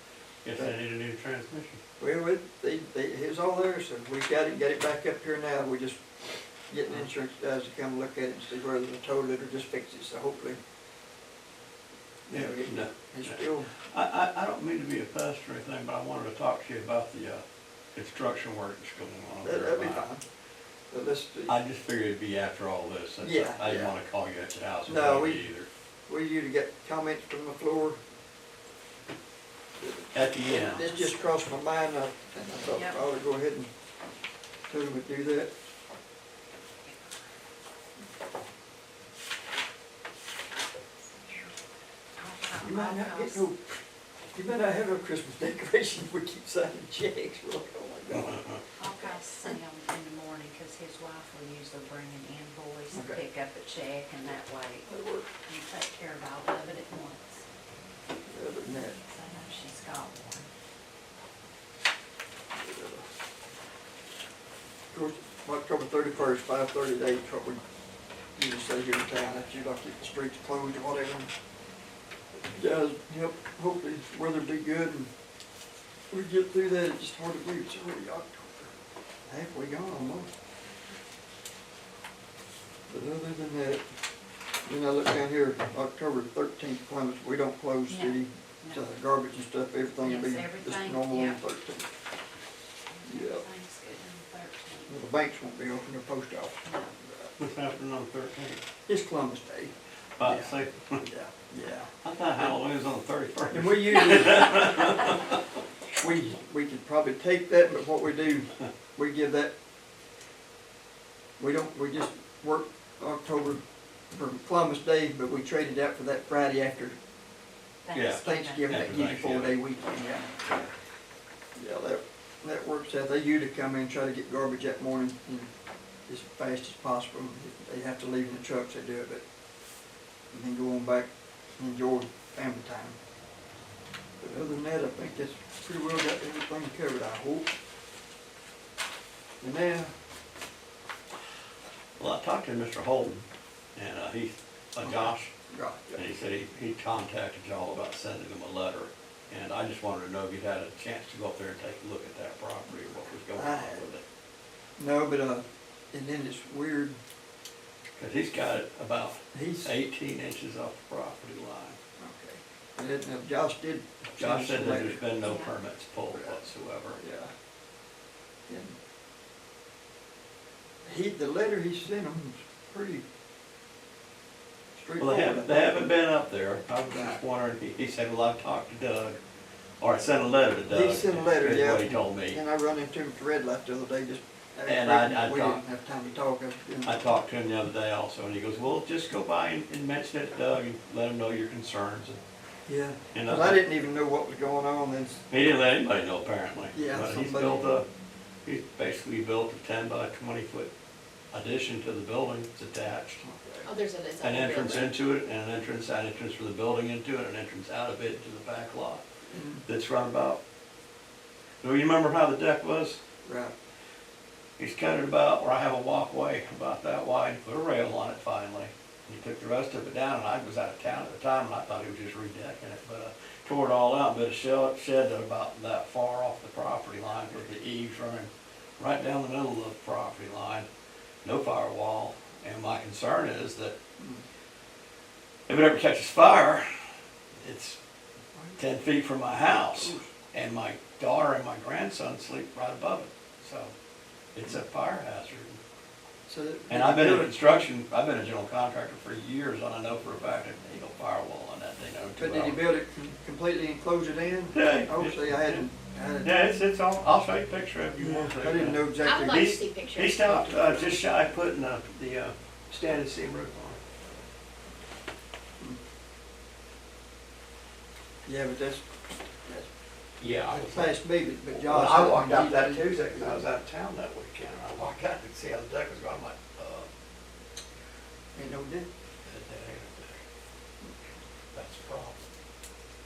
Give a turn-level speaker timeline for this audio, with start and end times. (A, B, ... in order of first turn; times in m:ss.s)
0:00.4-0:01.8 A
0:02.0-0:06.0 B
0:06.7-0:10.6 B
0:12.3-0:17.4 A
0:12.3-0:13.7 B
0:18.0-0:20.1 A
0:19.4-0:20.2 B
0:20.9-0:21.6 B
0:21.5-0:25.7 A
0:23.2-0:23.9 B
0:24.9-0:25.5 B
0:26.1-0:28.0 B
0:29.8-0:33.7 B
0:30.1-0:30.9 A
0:30.8-0:31.2 C
0:32.7-0:33.0 C
0:34.7-0:35.5 B
0:42.2-0:43.4 C
0:42.6-0:43.6 B
0:44.3-0:48.5 B
0:48.2-0:48.6 A
0:48.8-0:57.4 C
0:52.9-0:53.2 B
0:54.9-0:55.3 B
0:58.3-0:59.0 B
0:59.0-1:00.5 C
1:02.5-1:03.0 B
1:04.9-1:07.6 B
1:08.4-1:11.3 B
1:12.4-1:15.1 B
1:16.1-1:18.7 B
1:19.3-1:20.3 B
1:22.9-1:23.8 B
1:24.6-1:31.9 B
1:27.9-1:28.8 C
1:29.9-1:31.4 C
1:32.9-1:34.9 C
1:33.0-1:33.4 B
1:34.9-1:37.3 B
1:36.6-1:36.9 C
1:37.4-1:38.6 A
1:38.8-1:41.9 B
1:40.2-1:41.0 A
1:42.0-1:45.4 A
1:43.5-1:45.0 B
1:45.9-1:49.5 B
1:51.4-1:57.0 B
1:57.8-1:58.8 C
1:57.9-1:59.6 A
1:58.2-2:00.7 B
2:01.6-2:05.5 B
2:06.1-2:09.2 B
2:10.3-2:13.0 B
2:14.2-2:17.5 B
2:19.4-2:19.9 B
2:22.0-2:23.2 A
2:23.8-2:25.3 A
2:24.8-2:26.0 B
2:25.9-2:34.0 A
2:33.3-2:33.9 B
2:34.8-2:37.0 B
2:38.0-2:41.8 A
2:39.3-2:39.7 B
2:42.0-2:45.0 B
2:44.1-2:47.0 A
2:45.2-2:45.5 C
2:46.1-2:46.4 B
2:47.0-2:47.3 B
2:48.5-2:48.8 B
2:50.8-2:53.0 B
2:54.7-2:55.9 B
2:55.0-2:59.2 A
2:56.8-2:57.2 B
2:59.8-3:02.4 A
3:00.7-3:07.2 B
3:04.7-3:05.6 A
3:06.8-3:12.2 A
3:12.7-3:15.2 B
3:13.1-3:13.6 A
3:15.3-3:17.8 A
3:16.7-3:17.8 B
3:18.4-3:20.7 A
3:21.3-3:23.2 A
3:23.2-3:23.7 B
3:23.6-3:24.9 D
3:24.2-3:29.0 A
3:29.3-3:29.6 B
3:29.7-3:30.4 A
3:31.6-3:33.0 A
3:33.2-3:33.5 B
3:34.6-3:50.7 A
3:51.2-3:53.8 A
3:54.0-3:54.2 B
3:55.5-3:56.7 A
3:57.4-3:57.8 A
3:58.4-3:58.6 B
3:58.6-4:03.7 A
3:59.4-4:00.1 B
4:04.3-4:05.6 A
4:06.3-4:07.7 B
4:06.7-4:12.6 A
4:12.2-4:16.3 B
4:14.5-4:15.7 A
4:16.2-4:23.8 A
4:18.0-4:19.4 B
4:19.0-4:20.8 D
4:28.2-4:28.9 B
4:30.2-4:31.0 A
4:30.5-4:33.4 B
4:31.5-4:36.9 A
4:38.4-4:38.9 B
4:39.2-4:40.2 A
4:41.5-4:42.2 A